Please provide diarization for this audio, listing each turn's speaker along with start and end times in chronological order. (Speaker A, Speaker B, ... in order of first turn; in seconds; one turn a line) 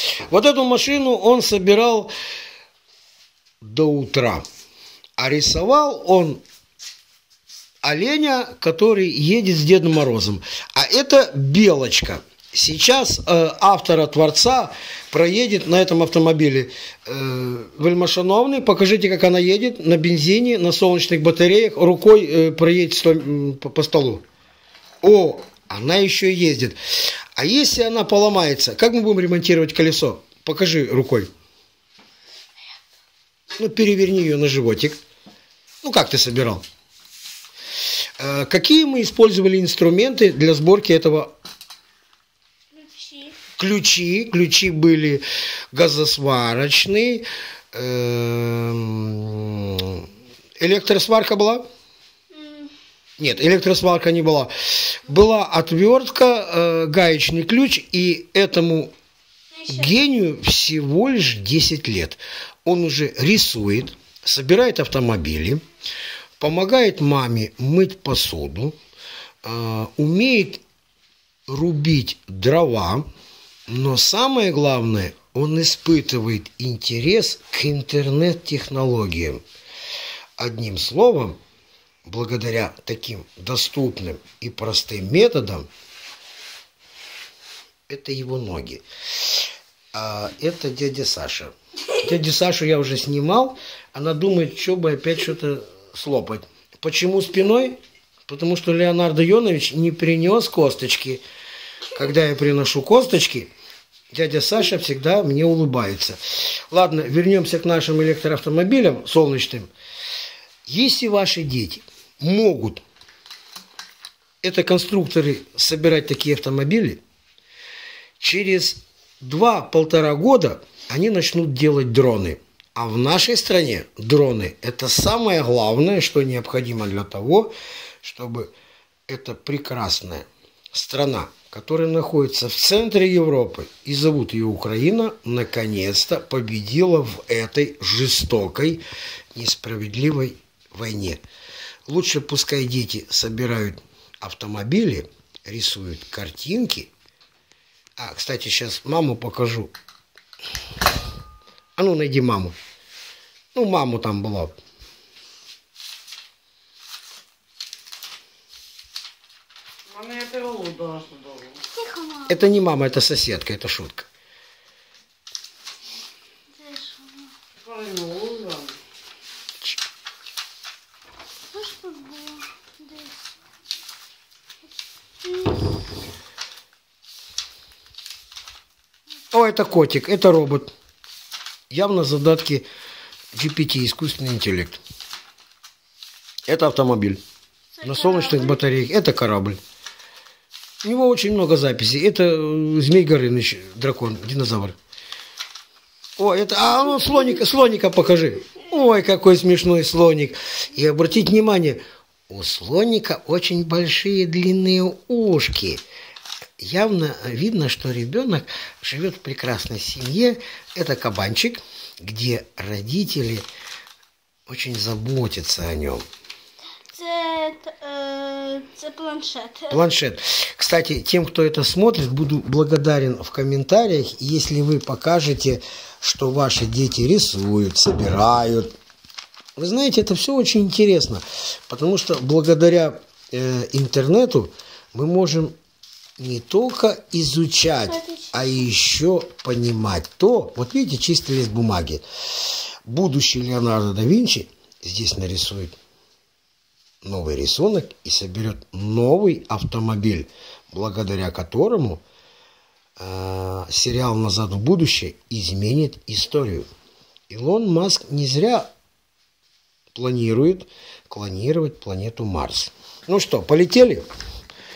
Speaker A: 0.3-2.1
Speaker A: 3.6-4.4
Speaker A: 5.2-6.4
Speaker A: 7.8-24.2
Speaker A: 25.0-26.8
Speaker A: 27.4-31.3
Speaker A: 33.6-35.0
Speaker A: 35.8-36.6
Speaker A: 38.2-41.3
Speaker B: 42.7-43.4
Speaker A: 43.5-50.0
Speaker A: 50.6-51.6
Speaker B: 52.3-52.7
Speaker A: 53.2-58.9
Speaker A: 59.6-65.6
Speaker A: 66.4-68.7
Speaker A: 69.4-70.6
Speaker A: 71.5-73.1
Speaker A: 73.7-79.4
Speaker A: 80.4-81.4
Speaker A: 82.0-85.7
Speaker A: 87.9-89.3
Speaker A: 89.9-101.2
Speaker A: 101.9-103.5
Speaker A: 104.1-106.2
Speaker A: 106.7-109.7
Speaker A: 110.7-112.8
Speaker A: 114.4-117.0
Speaker A: 118.2-128.5
Speaker A: 129.1-138.8
Speaker A: 139.3-141.2
Speaker A: 141.9-146.9
Speaker A: 148.0-149.7
Speaker A: 151.8-152.5
Speaker A: 153.5-154.6
Speaker C: 159.9-161.4
Speaker B: 161.5-162.4
Speaker A: 162.3-164.1
Speaker B: 166.5-167.3
Speaker C: 167.7-168.7
Speaker B: 171.5-173.3
Speaker B: 175.2-175.8
Speaker A: 179.3-180.7
Speaker A: 181.7-182.7
Speaker A: 183.3-184.8
Speaker A: 186.5-187.2
Speaker B: 187.8-188.6
Speaker A: 187.8-189.6
Speaker A: 190.8-194.8
Speaker A: 196.2-205.8
Speaker A: 206.6-213.5
Speaker A: 214.5-216.1
Speaker B: 216.9-219.8
Speaker A: 219.7-228.7
Speaker A: 229.6-235.5
Speaker A: 236.2-242.0
Speaker B: 238.0-238.3
Speaker A: 242.9-245.8
Speaker A: 247.0-252.0
Speaker A: 253.0-256.7
Speaker A: 257.3-258.7
Speaker A: 259.9-264.1